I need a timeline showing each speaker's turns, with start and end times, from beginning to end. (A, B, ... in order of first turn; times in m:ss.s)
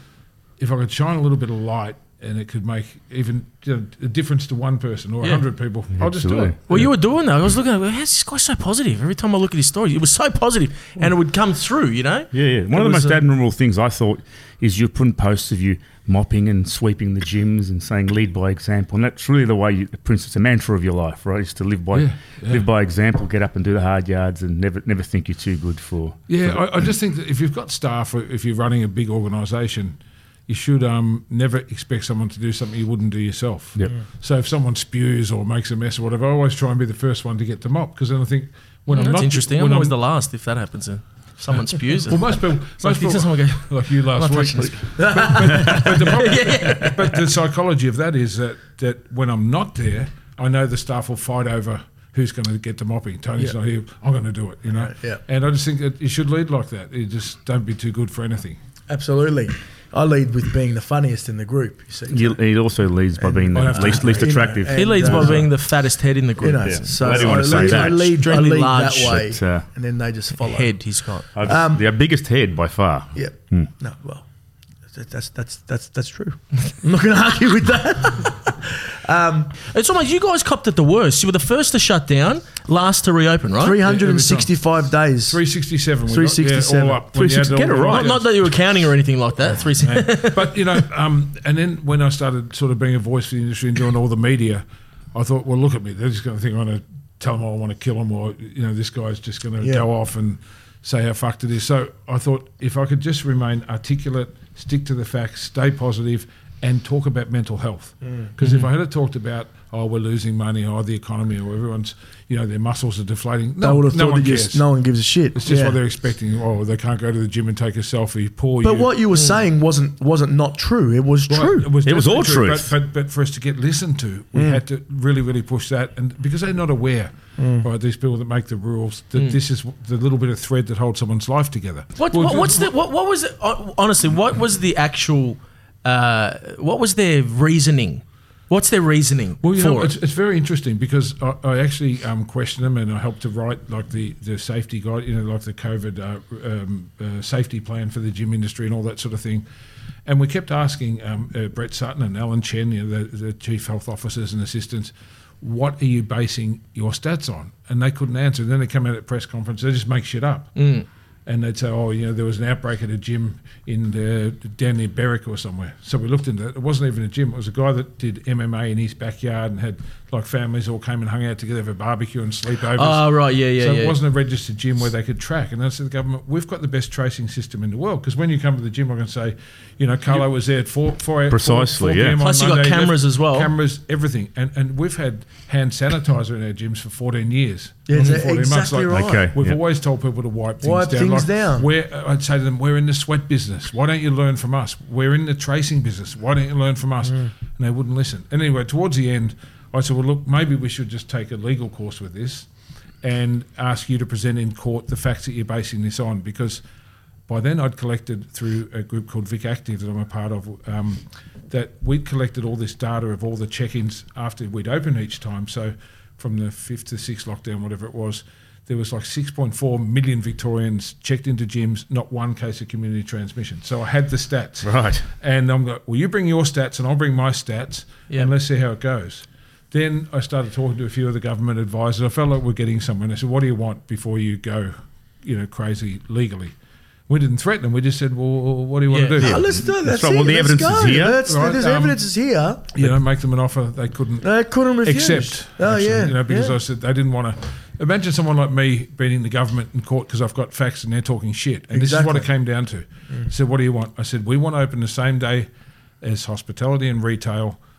0:00.6-0:06.6 A
0:06.0-0:06.6 B
0:06.7-0:13.2 C
0:12.3-0:26.7 B
0:21.9-0:22.7 A
0:26.3-0:39.9 A
0:38.9-0:47.0 C
0:42.1-0:58.6 A
0:45.0-0:45.7 D
0:45.6-0:45.9 B
0:54.7-0:55.2 D
0:58.9-1:02.4 D
1:02.1-1:05.5 B
1:03.2-1:05.5 D
1:03.5-1:04.7 A
1:04.7-1:09.3 C
1:06.4-1:10.7 D
1:06.6-1:08.1 B
1:07.1-1:08.0 A
1:09.1-1:09.6 B
1:10.4-1:11.3 C
1:11.3-1:13.7 B
1:11.4-1:11.8 D
1:13.1-1:14.3 D
1:14.9-1:19.5 D
1:19.7-1:23.8 C
1:23.6-1:25.4 D
1:23.8-1:24.5 A
1:25.3-1:28.3 A
1:26.1-1:27.0 D
1:27.1-1:28.2 B
1:27.9-1:30.6 C
1:29.8-1:54.6 A
1:39.6-1:39.9 D
1:53.6-1:55.8 D
1:55.3-1:58.9 A
1:58.6-2:01.8 D
2:01.3-2:12.7 A
2:01.8-2:02.7 B
2:04.3-2:04.6 D
2:07.4-2:07.7 D
2:12.0-2:19.9 C
2:19.4-2:29.4 A
2:30.0-2:40.6 A
2:40.6-2:40.8 C
2:41.2-3:22.5 A
2:52.7-2:54.0 C
3:01.3-3:02.2 B
3:02.2-3:03.5 C
3:07.9-3:09.3 D
3:08.9-3:09.6 B
3:10.6-3:11.7 D
3:23.0-3:26.6 A
3:27.3-3:56.5 A
3:44.6-3:45.0 B
3:57.1-3:59.6 A
3:58.9-3:59.2 C
3:59.2-4:02.9 D
3:59.2-4:01.2 B
4:01.2-4:02.0 A
4:02.7-4:04.3 A
4:04.2-4:06.6 D
4:04.8-4:15.5 A
4:11.7-4:12.3 D
4:16.0-4:17.6 A